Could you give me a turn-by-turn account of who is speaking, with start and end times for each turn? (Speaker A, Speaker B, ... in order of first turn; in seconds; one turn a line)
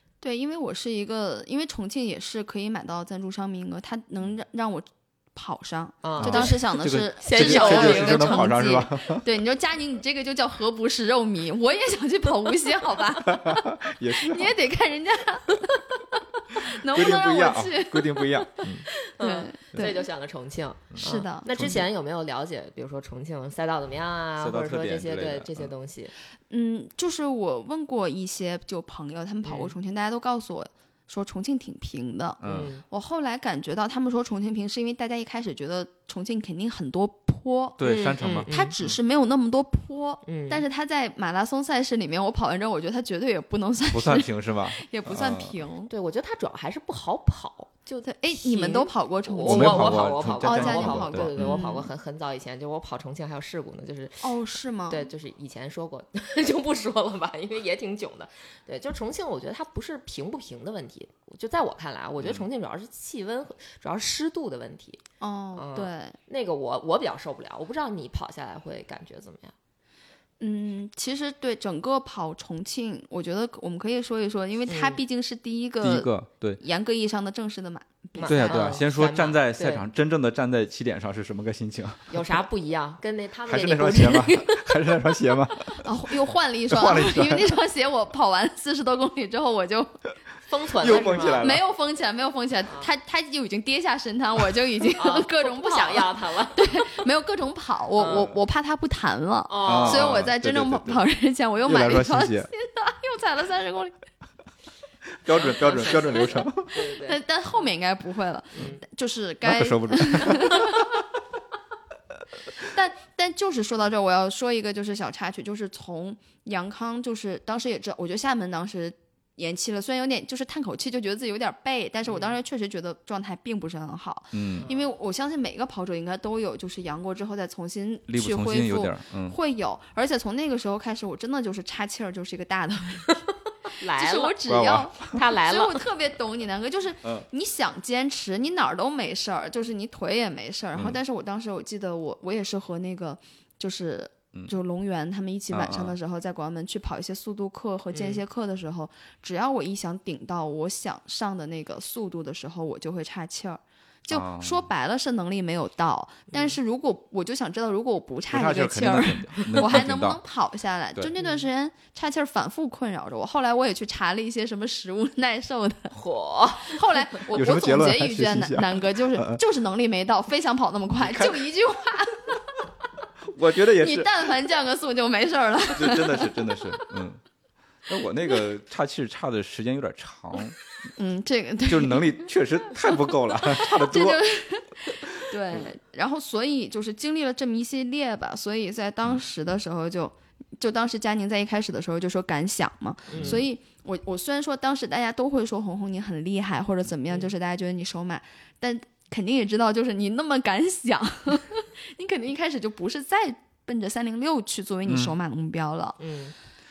Speaker A: 0.2-13.7
Speaker B: 6.0-8.8
Speaker C: 6.2-9.2
Speaker C: 13.2-14.5
Speaker A: 14.2-18.5
Speaker C: 16.8-18.9
Speaker B: 18.9-26.1
Speaker A: 19.2-20.1
Speaker C: 20.9-21.8
Speaker A: 21.0-21.7
Speaker C: 24.4-25.7
Speaker A: 26.5-37.8
Speaker B: 29.4-29.8
Speaker C: 32.4-32.7
Speaker B: 32.4-32.8
Speaker C: 37.8-39.0
Speaker B: 37.8-38.7
Speaker A: 38.5-45.9
Speaker B: 40.3-40.6
Speaker C: 43.9-45.5
Speaker B: 45.9-54.4
Speaker A: 48.0-51.9
Speaker C: 49.4-51.6
Speaker A: 54.2-55.1
Speaker B: 54.9-65.0
Speaker A: 65.2-66.2
Speaker B: 65.5-69.5
Speaker A: 70.4-78.8
Speaker B: 74.7-75.0
Speaker C: 75.8-76.6
Speaker B: 78.2-79.8
Speaker C: 78.3-82.2
Speaker B: 82.1-84.8
Speaker C: 83.5-85.9
Speaker A: 85.7-89.9
Speaker C: 86.7-87.5
Speaker B: 90.5-91.5
Speaker C: 90.8-91.7
Speaker A: 91.4-104.0
Speaker B: 95.0-96.9
Speaker B: 98.0-98.3
Speaker B: 99.5-100.2
Speaker C: 99.6-101.0
Speaker C: 101.7-102.5
Speaker C: 105.2-106.7
Speaker B: 105.3-107.2
Speaker A: 106.7-111.0
Speaker B: 108.5-108.8
Speaker C: 109.4-110.8
Speaker A: 112.6-133.2
Speaker B: 122.1-122.3
Speaker C: 124.3-124.7
Speaker B: 124.6-124.9
Speaker C: 128.1-129.4
Speaker B: 133.8-134.4
Speaker A: 133.9-165.9
Speaker C: 134.5-135.0
Speaker B: 135.1-135.8
Speaker C: 145.5-145.9
Speaker B: 147.9-148.2
Speaker C: 154.1-154.7
Speaker B: 156.3-156.6
Speaker C: 158.3-160.2
Speaker B: 161.2-161.4
Speaker B: 165.9-166.8
Speaker A: 166.6-172.4
Speaker C: 167.3-169.4
Speaker C: 171.0-171.4
Speaker C: 173.3-174.3
Speaker A: 173.7-176.6
Speaker C: 175.7-177.2
Speaker C: 177.9-180.6
Speaker A: 181.0-182.2
Speaker C: 181.7-184.2
Speaker A: 182.9-206.0
Speaker B: 193.1-193.4
Speaker C: 204.9-205.1
Speaker B: 206.0-206.3